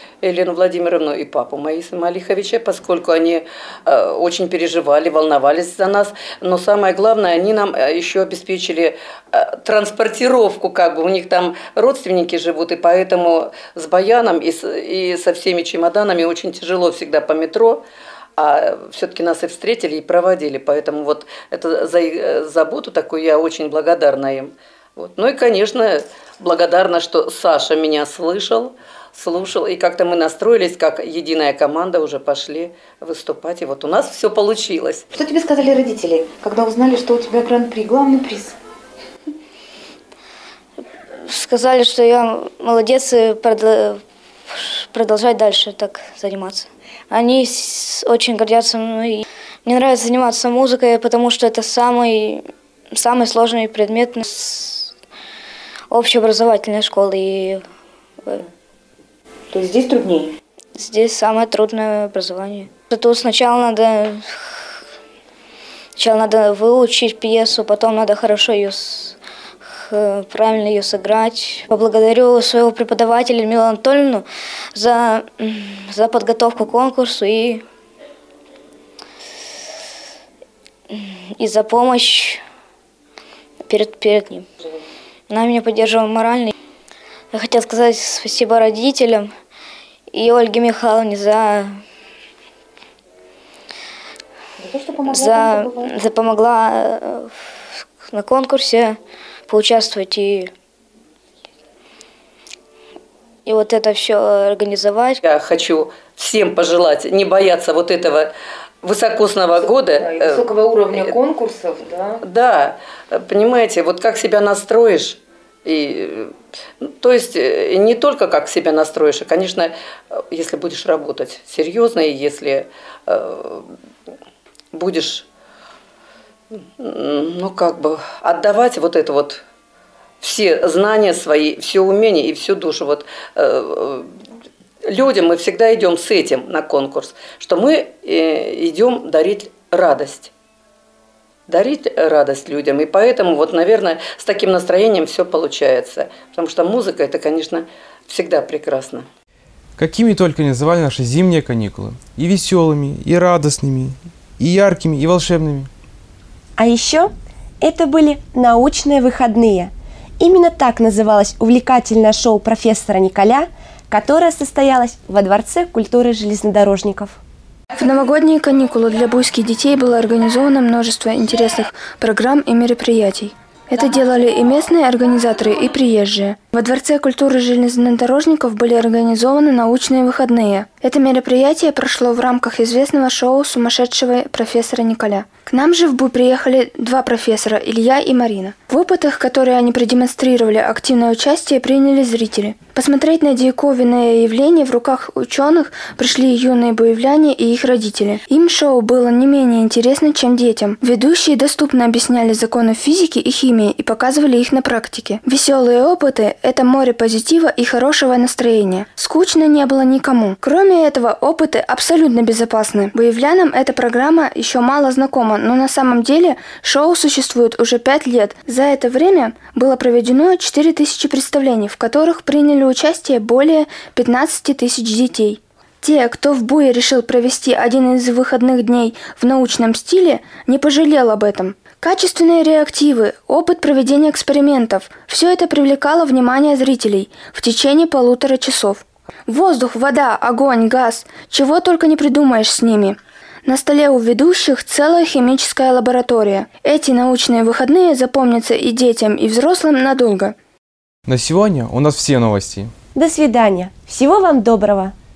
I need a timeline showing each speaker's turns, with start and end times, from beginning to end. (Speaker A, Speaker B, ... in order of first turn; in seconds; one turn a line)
Speaker A: 0.2-17.8
Speaker A: 18.4-35.0
Speaker B: 35.1-38.6
Speaker C: 41.3-44.0
Speaker C: 44.9-54.9
Speaker C: 55.9-57.6
Speaker B: 59.5-60.3
Speaker C: 60.8-64.3
Speaker C: 66.0-69.2
Speaker C: 69.8-77.6
Speaker C: 81.3-82.4
Speaker C: 83.7-84.5
Speaker C: 85.3-86.5
Speaker C: 87.3-89.3
Speaker C: 90.1-91.8
Speaker B: 94.6-95.9
Speaker C: 95.1-97.3
Speaker C: 98.1-100.5
Speaker C: 103.5-105.2
Speaker A: 105.2-108.3
Speaker A: 108.8-111.1
Speaker B: 109.5-112.2
Speaker A: 112.2-116.3
Speaker A: 117.0-123.7
Speaker A: 124.7-125.3
Speaker A: 126.8-129.4
Speaker A: 130.2-134.1
Speaker A: 134.9-140.3
Speaker A: 141.5-149.1
Speaker D: 149.8-155.7
Speaker E: 156.6-167.2
Speaker F: 167.8-250.4
Speaker D: 251.1-252.7
Speaker E: 252.9-254.9